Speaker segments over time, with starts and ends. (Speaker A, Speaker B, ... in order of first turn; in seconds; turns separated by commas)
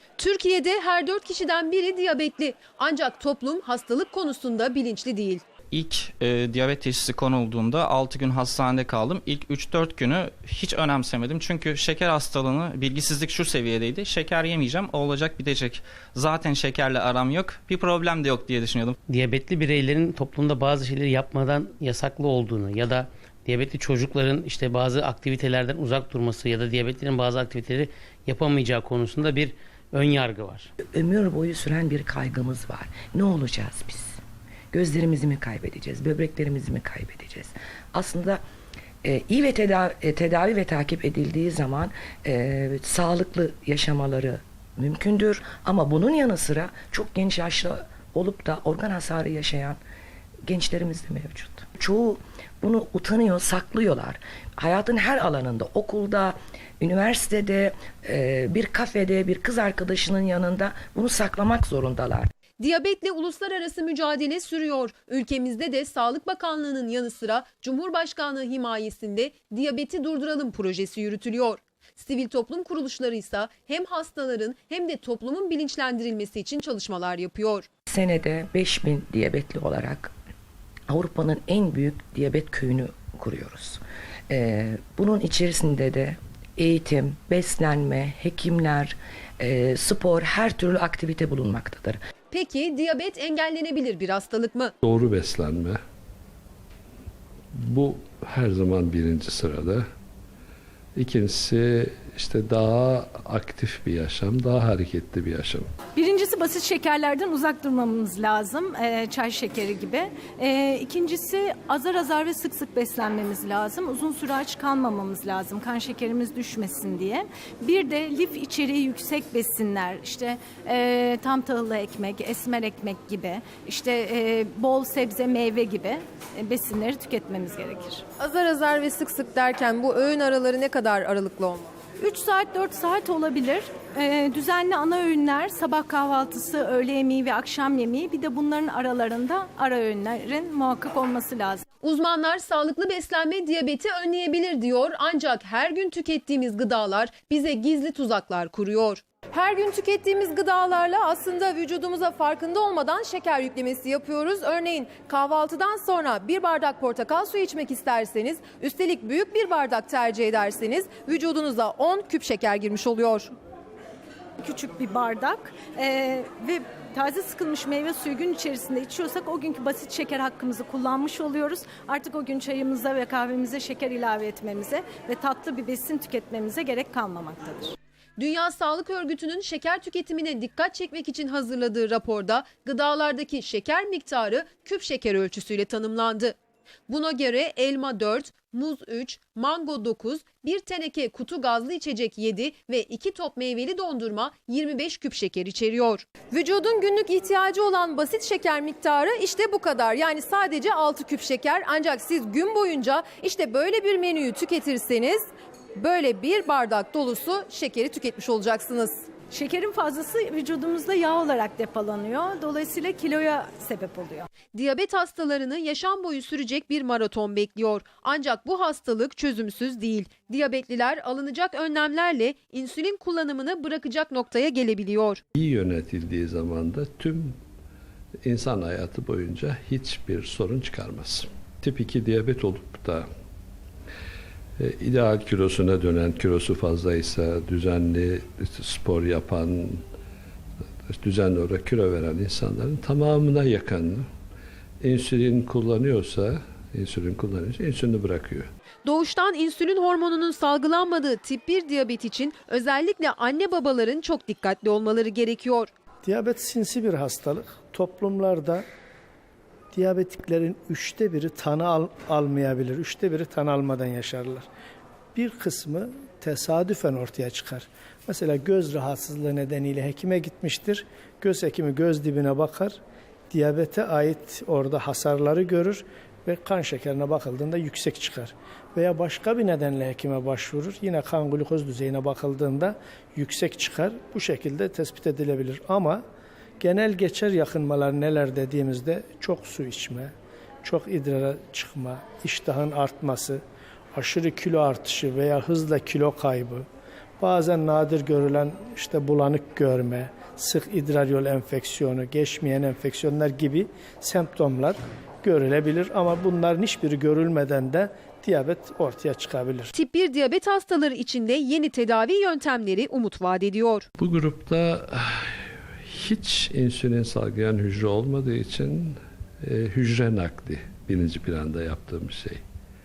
Speaker A: 0.2-5.4, Speaker B: 5.7-19.0, Speaker C: 19.1-30.7, Speaker D: 30.9-34.2, Speaker D: 34.7-38.4, Speaker D: 39.0-49.8, Speaker D: 50.5-62.3, Speaker A: 62.6-77.7, Speaker D: 77.9-80.1, Speaker D: 80.9-92.0, Speaker A: 92.3-94.7, Speaker E: 94.8-95.8, Speaker E: 97.5-99.8, Speaker E: 101.0-105.7, Speaker F: 106.0-128.1, Speaker A: 128.2-131.7, Speaker F: 132.0-141.7, Speaker A: 141.8-163.3, Speaker F: 164.4-177.8, Speaker A: 178.2-186.4, Speaker A: 186.9-209.0, Speaker F: 209.3-214.3, Speaker A: 214.5-225.2, Speaker E: 225.4-227.4, Speaker E: 228.2-233.1, Speaker E: 234.6-239.8, Speaker E: 240.9-244.1, Speaker E: 244.8-248.5, Speaker A: 248.8-255.7, Speaker G: 256.0-258.6, Speaker G: 259.7-264.5, Speaker G: 265.1-272.8, Speaker G: 273.3-286.0, Speaker G: 286.6-290.1, Speaker G: 290.6-293.4, Speaker G: 293.9-296.7, Speaker G: 297.2-309.7, Speaker A: 309.7-313.9, Speaker E: 314.0-315.3, Speaker E: 315.9-322.4